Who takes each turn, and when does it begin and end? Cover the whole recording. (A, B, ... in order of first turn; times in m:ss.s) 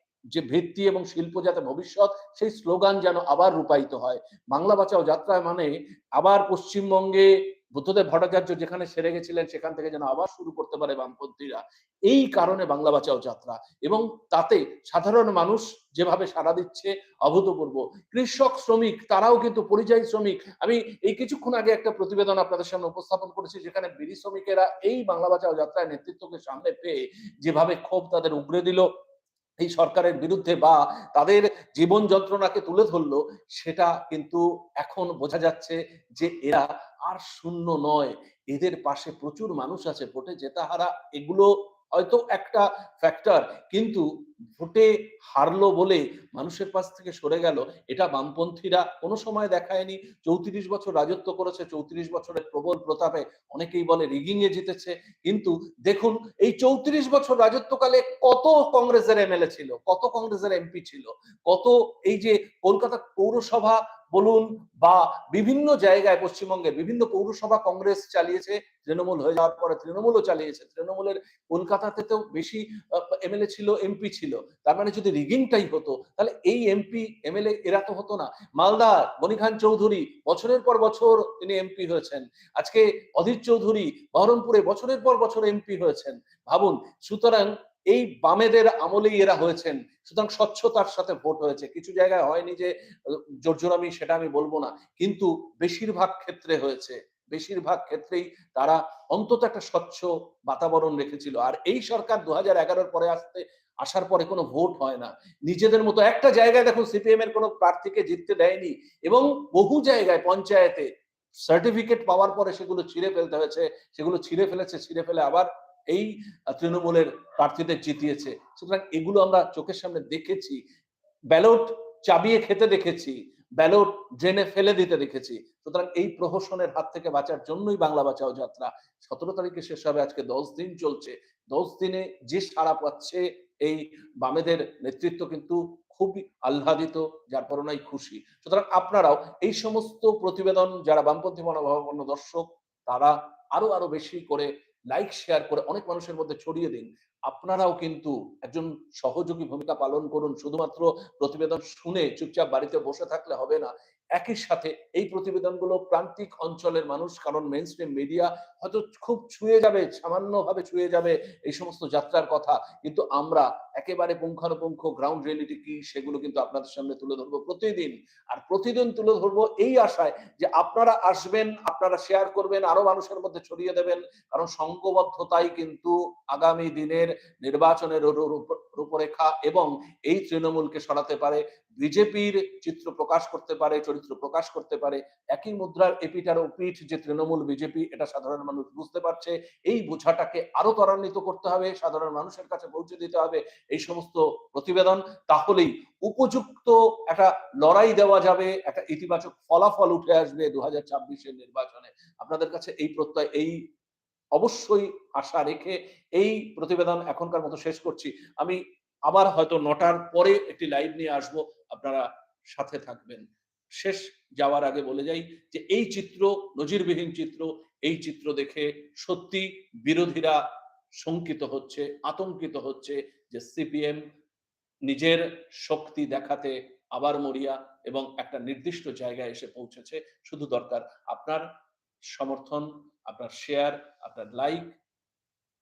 0:00.3-0:28.8 A
0:29.6-1:50.9 A
1:51.4-2:00.6 A
2:01.3-3:23.6 A
3:24.3-3:33.2 A
3:33.8-3:40.4 A
3:41.0-3:44.0 A
3:44.9-3:51.5 A
3:52.1-3:54.8 A